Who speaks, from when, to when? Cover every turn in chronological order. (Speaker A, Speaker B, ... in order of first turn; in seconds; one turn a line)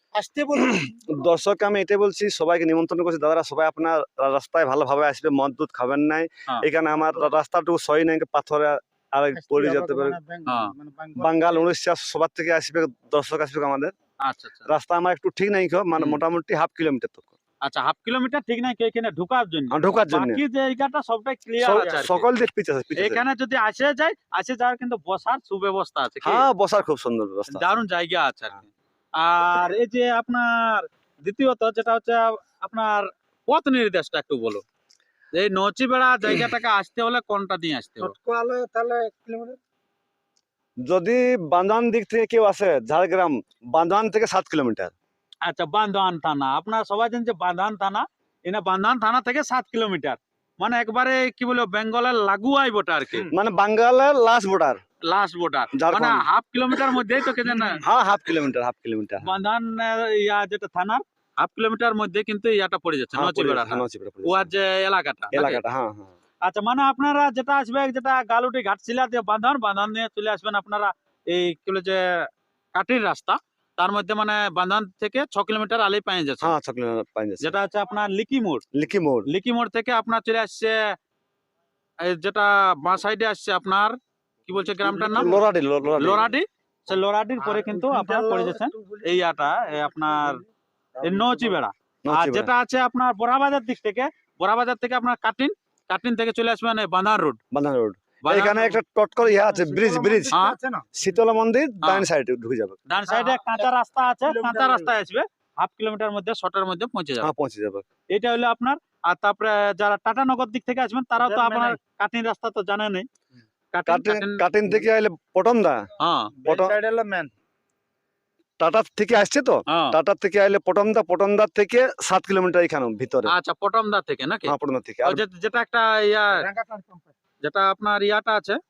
Speaker A: 0.1-0.9
Speaker B: 0.6-10.2
Speaker A: 9.3-11.7
Speaker C: 10.5-10.8
Speaker B: 11.2-13.9
Speaker C: 14.2-14.7
Speaker B: 14.7-17.3
Speaker C: 17.6-22.2
Speaker B: 19.7-20.4
Speaker B: 21.6-23.2
Speaker C: 23.0-26.5
Speaker B: 26.2-27.8
Speaker C: 27.5-34.6
Speaker C: 35.3-38.1
Speaker A: 38.0-39.6
Speaker B: 40.9-44.9
Speaker C: 45.5-53.3
Speaker B: 53.3-54.8
Speaker C: 55.1-57.8
Speaker B: 55.7-56.2
Speaker B: 57.7-59.3
Speaker C: 59.2-65.6
Speaker B: 63.1-64.5
Speaker B: 65.3-66.1
Speaker C: 66.4-76.5
Speaker B: 76.4-77.5
Speaker C: 77.4-78.7
Speaker B: 78.7-79.3
Speaker C: 79.3-80.8
Speaker C: 82.0-84.0
Speaker C: 84.5-85.4
Speaker A: 84.8-85.4
Speaker B: 85.0-86.3
Speaker C: 86.0-90.4
Speaker A: 87.4-89.1
Speaker A: 89.8-90.5
Speaker A: 91.0-91.6
Speaker C: 91.0-97.4
Speaker B: 92.0-92.5
Speaker B: 97.5-100.3
Speaker C: 98.2-98.8
Speaker A: 99.2-100.9
Speaker C: 100.3-100.6
Speaker B: 100.9-102.8
Speaker C: 102.9-107.3
Speaker A: 103.1-103.7
Speaker A: 104.2-104.9
Speaker B: 107.2-107.9
Speaker C: 108.1-113.1
Speaker A: 111.2-111.8
Speaker C: 113.7-114.4
Speaker B: 113.9-115.8
Speaker C: 116.0-116.3
Speaker A: 116.4-117.3
Speaker B: 116.5-116.8
Speaker B: 118.6-123.3
Speaker C: 119.7-120.0
Speaker C: 123.3-124.5
Speaker B: 124.5-125.2
Speaker C: 125.0-126.5
Speaker A: 126.3-127.1
Speaker C: 127.4-128.6